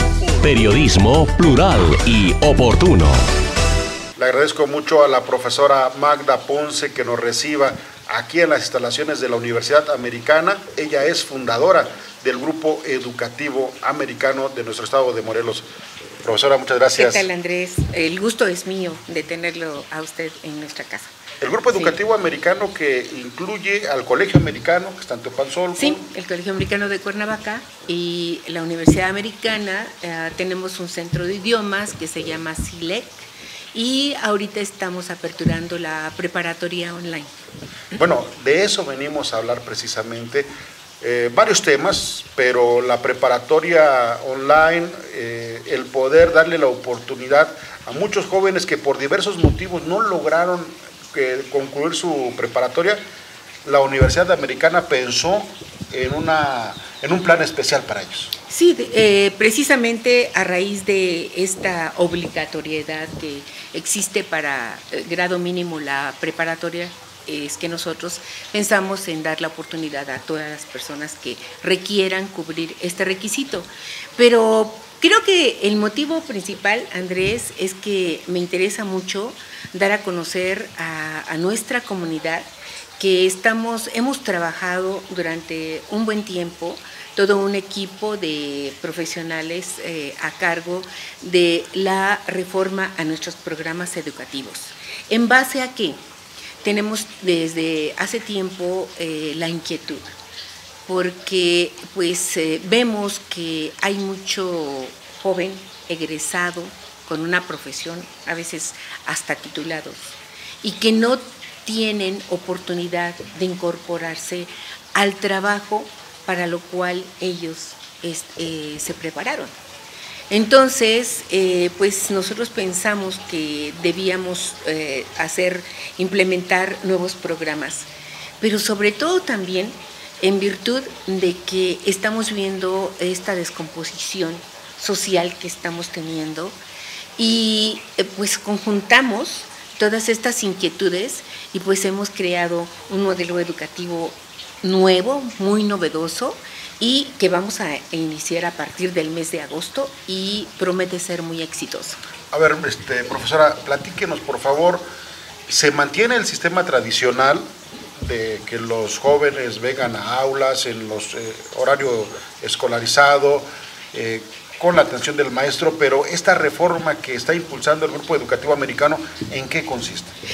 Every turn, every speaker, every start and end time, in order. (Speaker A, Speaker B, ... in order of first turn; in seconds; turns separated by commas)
Speaker A: 0.4-3.2, Speaker B: 4.2-15.7, Speaker B: 16.2-17.3, Speaker C: 16.9-21.1, Speaker B: 21.4-26.0, Speaker C: 21.7-22.0, Speaker C: 25.7-37.3, Speaker B: 38.0-40.5, Speaker B: 41.0-53.0, Speaker B: 53.6-58.3, Speaker C: 58.5-82.5, Speaker C: 83.0-96.0, Speaker C: 96.6-100.0, Speaker C: 100.9-119.5, Speaker C: 120.3-127.9, Speaker C: 128.4-136.6, Speaker C: 137.2-152.0, Speaker B: 152.3-154.8, Speaker B: 155.5-170.1